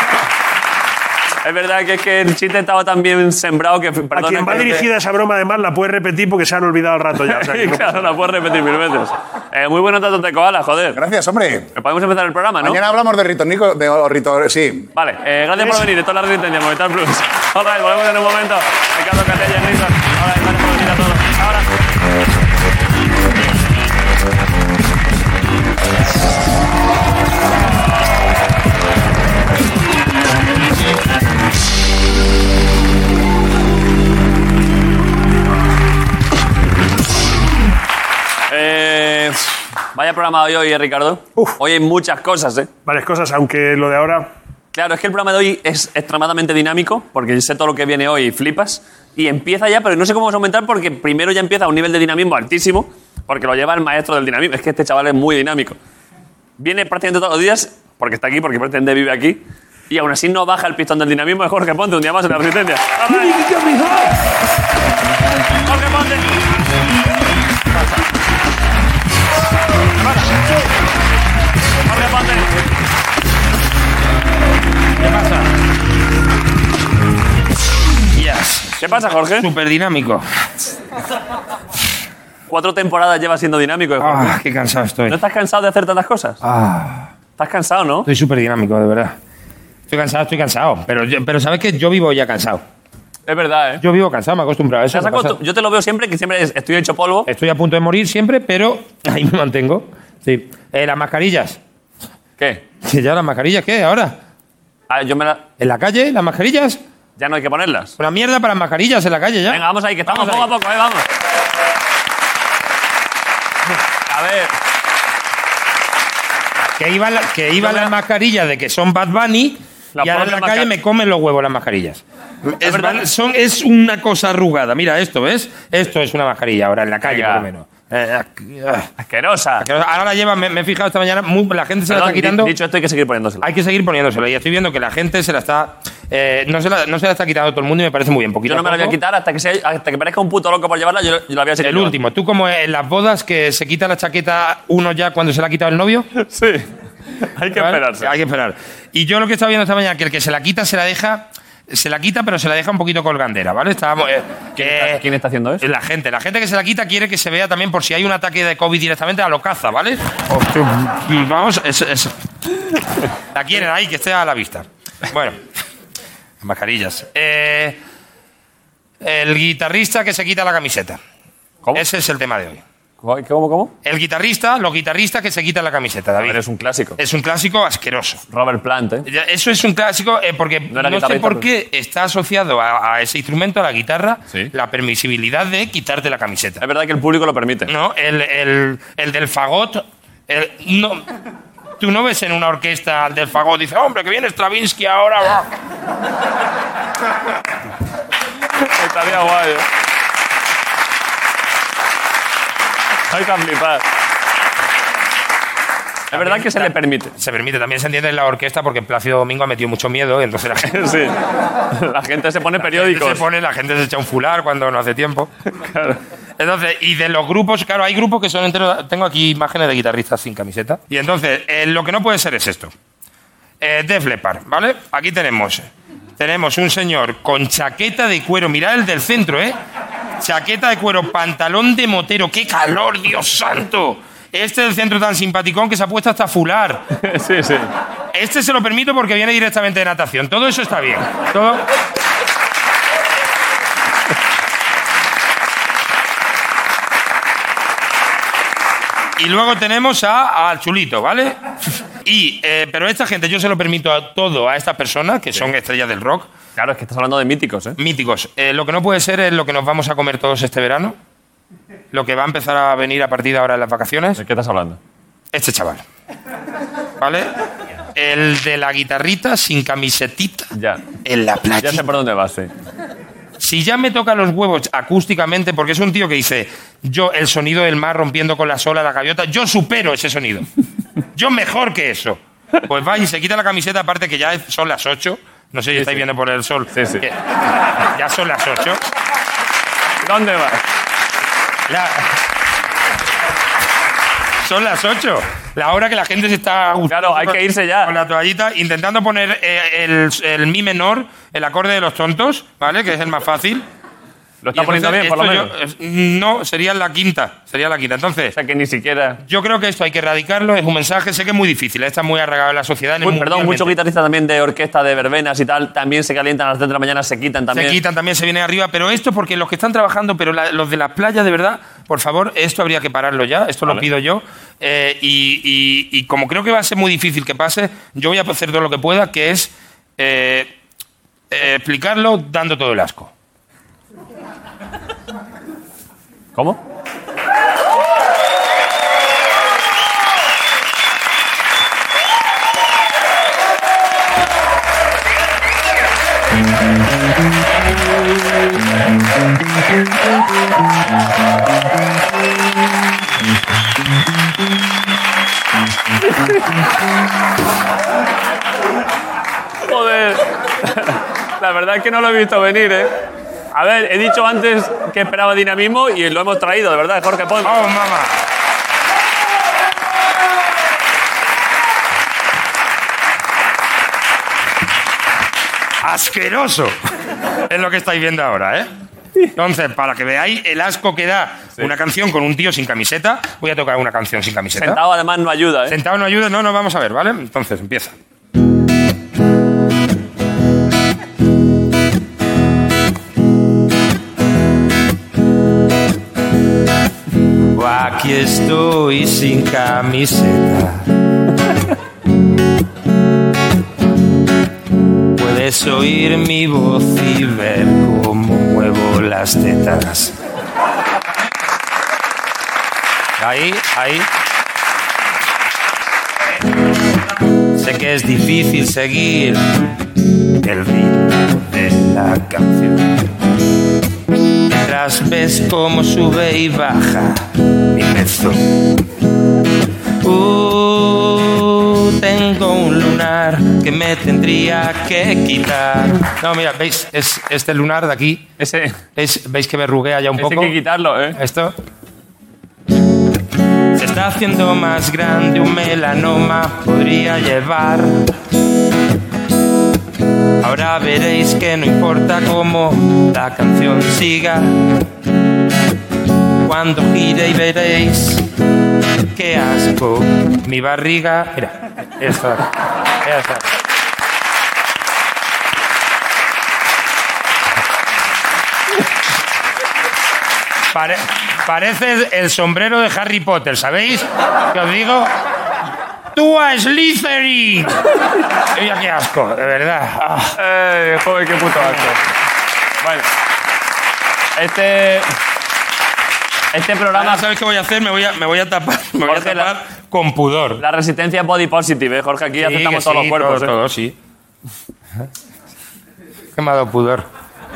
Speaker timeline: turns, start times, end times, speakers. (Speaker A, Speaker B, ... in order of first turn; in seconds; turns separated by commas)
Speaker A: 1.4-4.9, Speaker B: 4.2-8.1, Speaker A: 7.3-11.0, Speaker C: 10.9-11.7, Speaker A: 11.8-12.8, Speaker C: 12.6-14.9, Speaker A: 14.9-21.7, Speaker B: 15.6-15.9, Speaker A: 38.5-42.7, Speaker B: 42.9-44.3, Speaker A: 44.7-55.8, Speaker A: 56.6-63.4, Speaker B: 63.4-64.0, Speaker A: 65.7-66.3, Speaker A: 70.0-70.3, Speaker A: 71.9-72.5, Speaker D: 75.0-75.5, Speaker D: 78.1-80.2, Speaker A: 78.8-79.5, Speaker A: 82.5-84.4, Speaker D: 84.0-85.2, Speaker A: 85.1-86.4, Speaker D: 86.4-87.1, Speaker A: 87.4-88.1, Speaker D: 88.1-89.2, Speaker D: 89.9-92.6, Speaker A: 93.3-93.8, Speaker D: 93.8-95.4, Speaker A: 94.9-97.3, Speaker D: 97.3-101.6, Speaker A: 102.4-102.6, Speaker D: 102.8-104.2, Speaker A: 104.9-105.4, Speaker D: 105.6-106.8, Speaker A: 107.2-108.0, Speaker D: 108.0-110.5, Speaker A: 109.5-111.0, Speaker A: 114.1-114.5, Speaker D: 116.8-128.9, Speaker A: 117.6-117.9, Speaker A: 120.0-120.7, Speaker A: 122.6-123.0, Speaker A: 127.0-127.5, Speaker A: 129.0-129.7, Speaker D: 129.6-132.5, Speaker A: 131.9-133.4, Speaker D: 133.4-139.0, Speaker A: 138.5-141.9, Speaker D: 141.6-146.1, Speaker A: 146.2-146.7, Speaker A: 147.2-148.1, Speaker D: 147.5-155.0, Speaker A: 154.6-155.7, Speaker D: 155.6-162.1, Speaker D: 163.3-165.4, Speaker D: 166.4-167.8, Speaker D: 169.0-171.0, Speaker D: 171.7-172.6, Speaker A: 173.0-173.7, Speaker D: 173.8-176.4, Speaker A: 176.2-177.0, Speaker D: 177.0-178.2, Speaker A: 178.3-179.1, Speaker D: 179.1-186.6, Speaker A: 180.7-181.4, Speaker A: 186.6-187.7, Speaker D: 187.7-191.1, Speaker D: 191.8-195.5, Speaker A: 198.7-199.7, Speaker A: 203.1-203.8, Speaker A: 206.1-207.1, Speaker D: 206.1-210.7, Speaker A: 210.6-211.2, Speaker A: 211.7-213.2, Speaker D: 212.6-215.3, Speaker A: 215.5-216.0, Speaker D: 216.4-222.7, Speaker D: 223.6-225.7, Speaker D: 226.2-229.6, Speaker D: 230.2-236.8, Speaker A: 237.0-237.7, Speaker D: 238.1-241.7, Speaker D: 249.2-256.3, Speaker A: 256.6-257.8, Speaker D: 257.8-261.0, Speaker D: 261.9-264.2, Speaker A: 264.2-264.8, Speaker D: 265.3-265.8, Speaker D: 267.0-267.3, Speaker D: 267.9-270.5, Speaker A: 270.5-270.8, Speaker D: 271.0-271.9, Speaker A: 271.6-272.5, Speaker D: 273.4-280.5, Speaker D: 281.1-287.2, Speaker A: 285.7-286.0, Speaker A: 286.7-287.0, Speaker D: 287.8-288.8, Speaker A: 290.0-290.6, Speaker D: 291.7-292.1, Speaker D: 294.4-303.6, Speaker A: 296.9-297.9, Speaker A: 304.4-305.5, Speaker D: 304.6-308.4, Speaker A: 308.4-309.2, Speaker D: 309.2-313.8, Speaker A: 313.0-317.8, Speaker D: 317.5-330.5, Speaker D: 331.3-333.1, Speaker A: 336.4-336.6, Speaker A: 359.6-362.9, Speaker A: 363.5-367.6, Speaker D: 367.4-368.2, Speaker D: 375.8-376.8, Speaker D: 377.5-378.7, Speaker D: 379.4-384.8, Speaker A: 384.5-385.8, Speaker D: 385.7-388.0, Speaker D: 397.5-400.9, Speaker D: 405.1-410.1, Speaker D: 413.2-414.1, Speaker D: 417.6-419.6, Speaker D: 420.4-422.8, Speaker D: 424.5-428.6, Speaker D: 430.0-438.3, Speaker A: 438.4-438.8, Speaker D: 439.0-440.6, Speaker A: 440.2-441.2, Speaker D: 441.1-441.5, Speaker D: 443.8-448.1, Speaker D: 450.4-454.8, Speaker D: 456.4-458.3, Speaker D: 459.1-463.5, Speaker D: 470.7-475.1, Speaker D: 476.1-480.4, Speaker A: 480.4-482.0, Speaker A: 482.8-483.1, Speaker A: 484.4-485.1, Speaker A: 486.5-487.2, Speaker D: 486.9-490.6, Speaker A: 489.1-489.5, Speaker A: 490.6-493.5, Speaker D: 492.4-493.9, Speaker D: 496.4-497.1